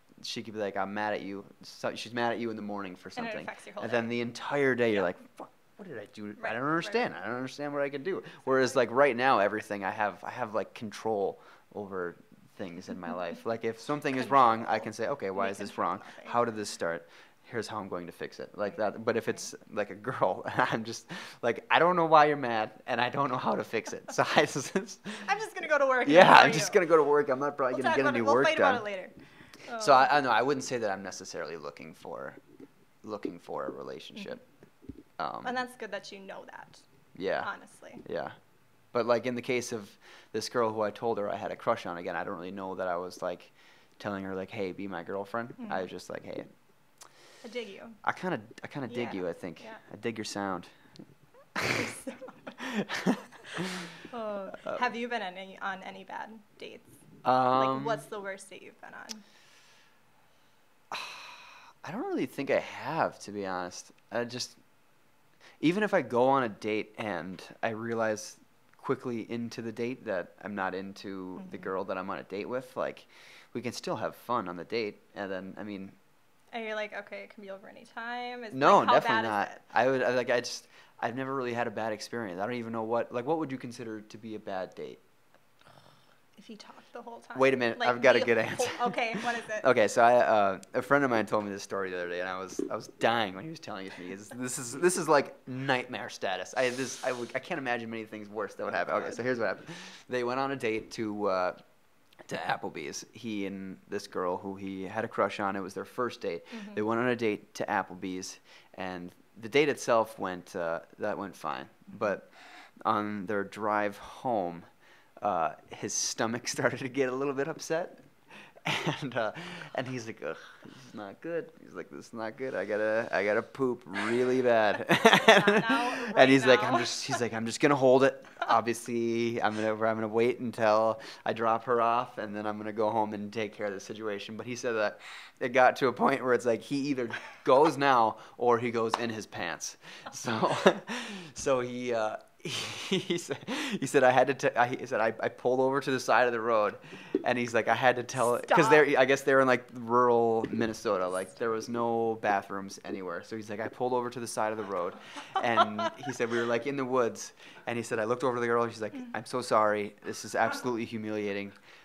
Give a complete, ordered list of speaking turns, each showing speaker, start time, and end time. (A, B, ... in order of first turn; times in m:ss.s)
0:00.2-0:25.2 A
0:03.2-0:04.1 B
0:06.4-0:07.0 B
0:15.4-0:16.4 B
0:25.2-0:26.8 B
0:26.0-0:28.8 A
0:27.7-0:29.1 B
0:29.7-0:30.1 B
0:29.8-0:32.4 A
0:33.0-0:34.4 A
0:34.2-0:34.4 B
0:35.2-0:35.6 A
0:35.4-0:36.8 B
0:37.2-0:37.5 A
0:37.4-0:38.0 B
0:38.0-0:38.4 A
0:38.9-0:46.5 A
0:45.6-0:45.8 B
0:47.4-0:48.0 B
0:48.0-0:50.7 A
0:48.9-0:49.8 B
0:51.6-0:51.9 A
0:51.7-0:52.6 B
0:52.6-0:53.9 A
0:54.1-0:57.0 B
0:57.2-0:58.0 A
0:57.5-0:59.2 B
1:00.9-1:04.6 A
1:05.6-1:16.0 A
1:11.4-1:11.7 B
1:16.5-1:19.6 B
1:18.5-1:25.0 A
1:26.4-1:29.7 B
1:27.4-1:41.6 A
1:42.2-1:52.3 A
1:46.5-1:46.8 B
1:52.8-1:54.7 A
1:55.2-1:58.1 A
1:58.6-2:41.6 A
2:05.0-2:07.2 B
2:28.4-2:28.8 B